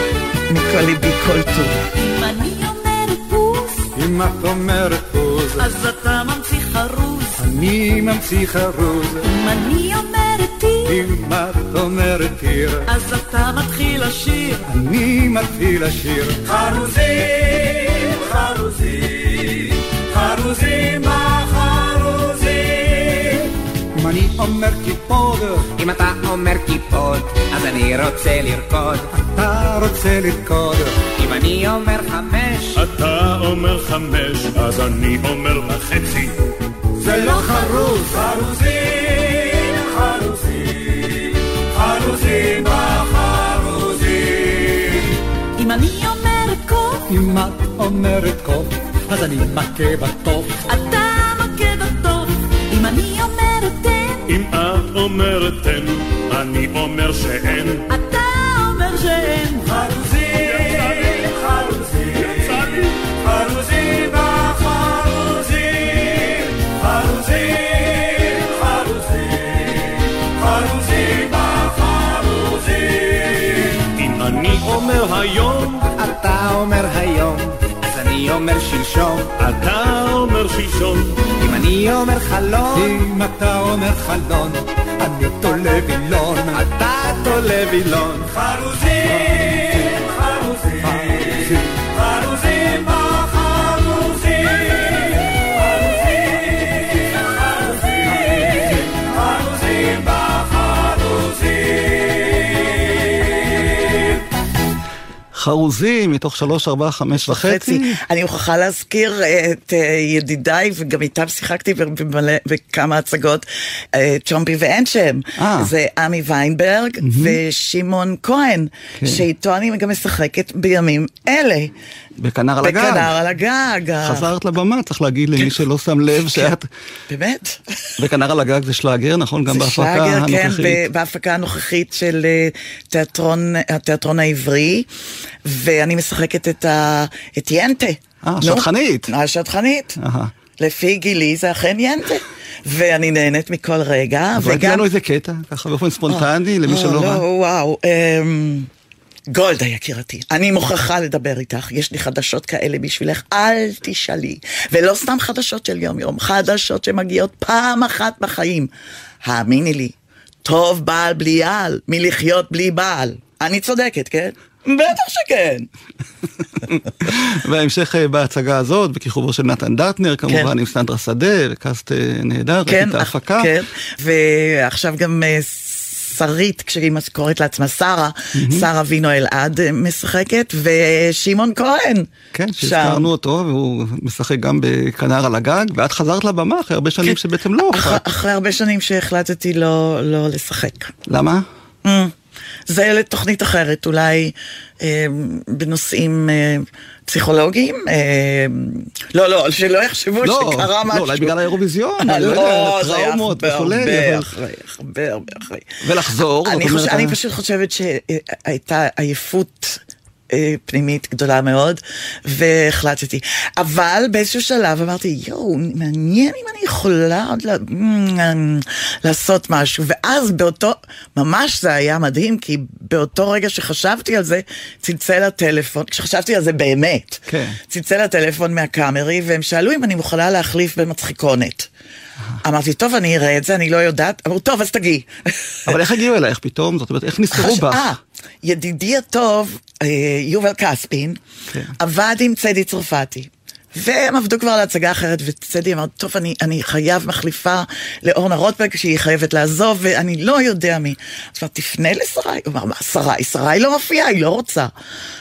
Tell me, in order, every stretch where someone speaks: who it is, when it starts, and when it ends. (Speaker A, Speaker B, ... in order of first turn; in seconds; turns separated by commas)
Speaker A: 0.5-1.8, Speaker B: 1.9-3.9, Speaker C: 4.0-5.6, Speaker B: 5.6-7.5, Speaker C: 7.4-9.2, Speaker B: 9.2-11.0, Speaker C: 11.0-12.8, Speaker B: 12.8-14.7, Speaker C: 14.7-17.3, Speaker C: 18.5-19.0, Speaker C: 20.2-21.3, Speaker C: 22.0-22.7, Speaker C: 24.1-25.6, Speaker D: 25.8-29.1, Speaker C: 29.4-30.9, Speaker D: 31.1-32.8, Speaker E: 32.8-36.4, Speaker C: 37.0-39.4, Speaker B: 45.6-47.1, Speaker C: 47.2-50.5, Speaker B: 50.6-54.4, Speaker E: 54.3-57.9, Speaker B: 57.9-59.8, Speaker E: 60.5-61.3, Speaker E: 62.2-63.2, Speaker E: 73.9-75.9, Speaker D: 75.9-79.3, Speaker E: 79.4-81.2, Speaker D: 81.4-83.0, Speaker C: 82.9-86.4, Speaker D: 86.5-88.3, Speaker F: 105.3-108.0, Speaker A: 107.2-121.7, Speaker F: 115.4-115.7, Speaker F: 117.0-117.4, Speaker F: 122.2-123.1, Speaker A: 122.6-124.3, Speaker F: 124.0-126.7, Speaker A: 126.2-126.5, Speaker A: 127.1-127.9, Speaker F: 128.0-130.8, Speaker A: 129.5-134.9, Speaker A: 135.4-140.0, Speaker F: 138.2-139.1, Speaker F: 140.0-140.3, Speaker A: 140.6-144.9, Speaker F: 144.4-147.2, Speaker A: 146.1-148.7, Speaker A: 149.3-158.7, Speaker A: 159.2-165.7, Speaker F: 167.0-173.5, Speaker A: 172.7-182.1, Speaker F: 178.4-178.7, Speaker F: 182.3-188.0, Speaker A: 182.6-183.1, Speaker A: 187.7-190.9, Speaker F: 191.1-191.4, Speaker A: 191.8-192.1, Speaker A: 192.7-201.3, Speaker F: 200.2-204.3, Speaker A: 202.0-205.7, Speaker F: 205.8-207.2, Speaker A: 206.4-231.7, Speaker F: 227.3-227.6, Speaker A: 232.4-235.8, Speaker F: 235.7-237.9, Speaker A: 237.3-241.2, Speaker A: 241.8-254.7